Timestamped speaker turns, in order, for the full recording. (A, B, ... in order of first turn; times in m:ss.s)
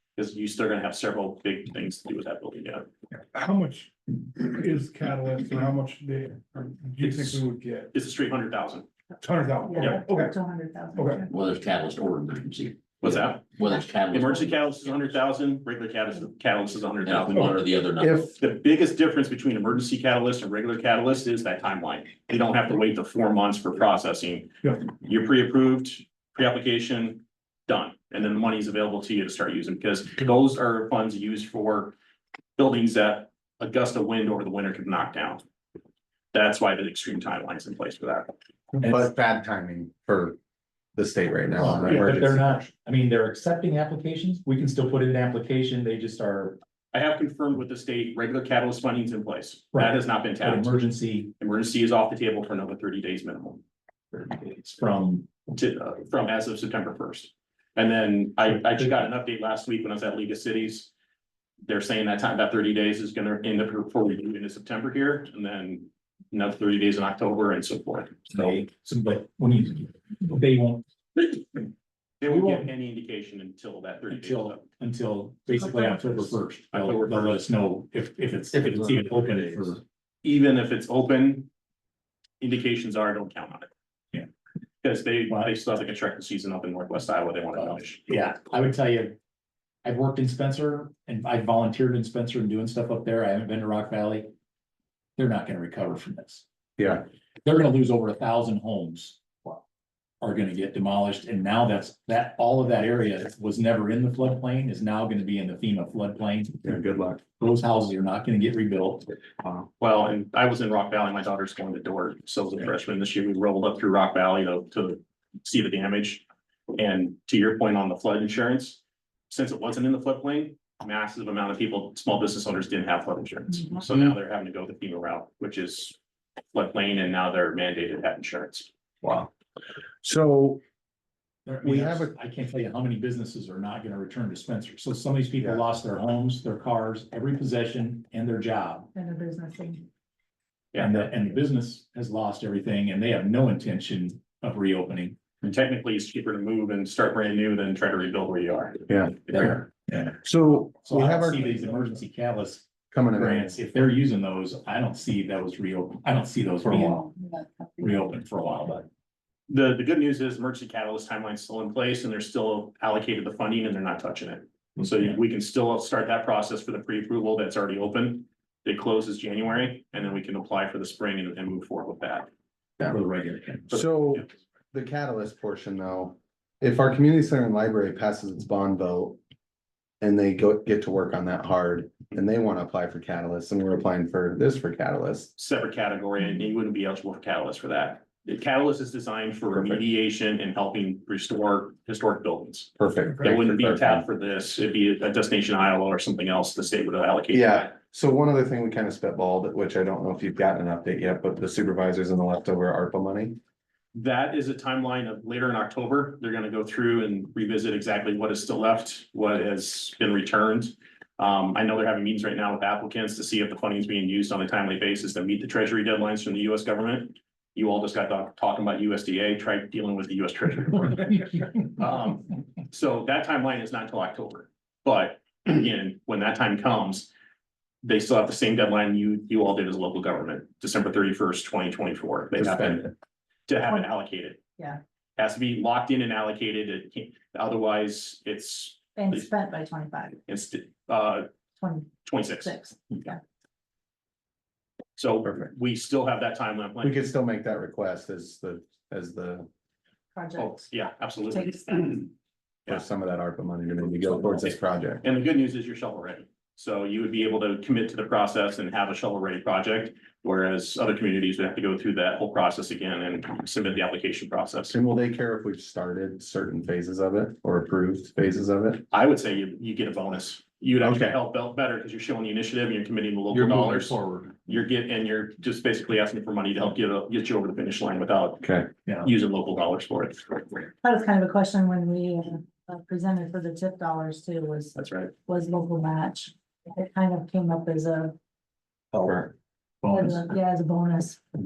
0:00.2-0:02.9 A
0:03.3-0:07.9 B
0:07.0-0:08.9 A
0:09.2-0:10.4 B
0:09.6-0:11.3 C
0:11.0-0:11.3 B
0:11.3-0:14.7 D
0:13.0-0:13.6 A
0:14.1-0:17.6 A
0:17.0-0:18.3 D
0:18.0-0:18.3 E
0:18.4-0:32.0 A
0:32.6-0:35.4 A
0:36.3-0:38.3 A
0:38.7-0:40.4 E
0:41.0-0:42.7 E
0:41.6-0:46.6 F
0:46.9-0:53.6 A
0:49.7-0:51.3 F
0:54.1-0:55.3 F
0:55.5-1:00.9 A
0:58.4-0:59.1 F
1:01.7-1:08.5 A
1:08.3-1:11.4 F
1:12.2-1:14.6 A
1:12.2-1:12.7 F
1:14.1-1:19.8 F
1:15.8-1:17.4 A
1:20.2-1:21.5 A
1:22.4-1:23.7 A
1:24.8-1:28.0 A
1:27.6-1:29.2 F
1:29.8-1:34.3 F
1:35.2-1:36.4 F
1:36.8-1:37.0 E
1:37.4-1:39.6 F
1:40.2-1:49.1 F
1:46.6-1:47.2 E
1:49.8-2:06.0 A
2:06.5-2:08.7 A
2:09.0-2:09.3 E
2:10.0-2:10.6 E
2:11.5-2:18.9 F
2:11.6-2:12.1 E
2:19.0-2:19.9 C
2:20.7-2:21.1 A
2:20.8-2:25.2 F
2:25.4-2:29.6 A
2:28.9-2:29.6 E
2:29.9-2:37.1 F
2:30.2-2:32.0 E
2:32.9-2:33.6 E
2:36.7-2:38.0 C
2:37.8-2:38.9 F
2:39.5-2:52.3 A
2:52.8-2:53.8 F
2:53.7-2:59.2 E
2:53.8-2:54.2 A
3:00.0-3:05.3 E
3:05.4-3:17.8 A
3:09.5-3:09.8 E
3:12.8-3:14.0 E
3:17.3-3:23.4 E
3:23.9-3:47.1 A
3:47.8-3:52.9 A
3:52.4-3:52.9 E
3:53.5-3:54.4 A
3:55.2-3:59.2 A
3:59.0-4:00.2 C
4:00.3-4:01.3 A
4:01.6-4:03.2 C
4:02.0-4:02.6 A
4:05.0-4:07.0 A
4:06.8-4:09.5 E
4:10.2-4:10.7 C
4:10.4-4:12.1 A
4:11.3-4:12.1 C
4:12.7-4:15.0 E
4:14.0-4:24.8 A
4:24.7-4:28.8 E
4:28.9-4:38.5 A
4:30.8-4:31.2 E
4:33.3-4:34.3 F
4:38.4-4:38.7 E
4:39.0-4:40.7 A
4:40.8-4:44.8 C
4:44.8-4:45.1 A
4:45.3-4:48.2 C
4:48.9-4:49.2 F
4:48.9-4:49.3 E
4:49.8-4:50.3 F
4:49.9-4:51.2 C